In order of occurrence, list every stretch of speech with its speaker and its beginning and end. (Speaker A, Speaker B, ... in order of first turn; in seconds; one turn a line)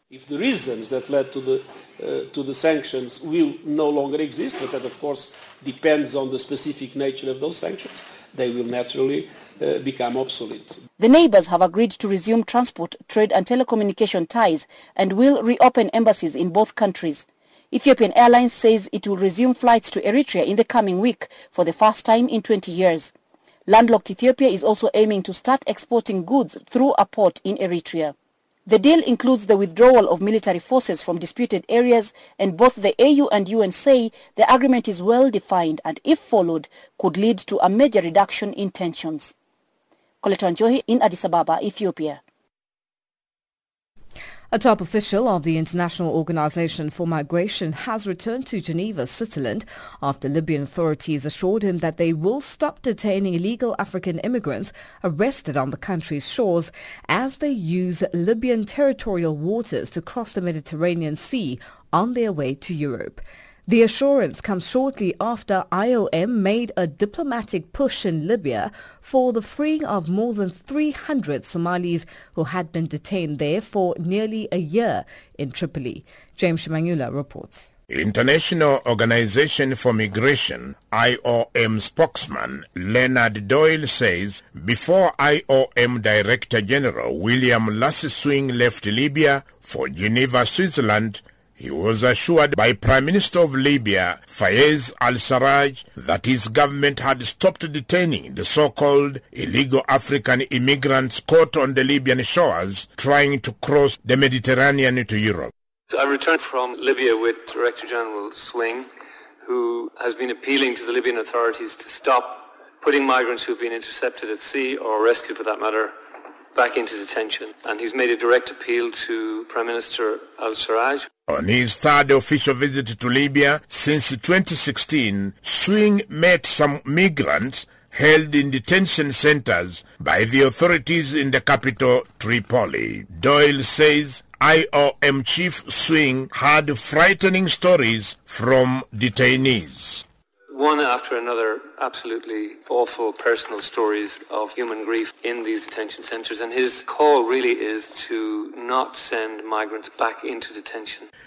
Speaker A: 0.1-10.8
Speaker B: 11.0-23.1
Speaker B: 23.7-28.1
Speaker B: 28.7-39.3
Speaker B: 40.2-42.2
Speaker C: 44.5-77.7
Speaker D: 77.9-105.5
Speaker E: 105.9-108.9
Speaker E: 109.4-116.0
Speaker E: 116.5-121.1
Speaker D: 121.3-140.1
Speaker E: 140.5-151.1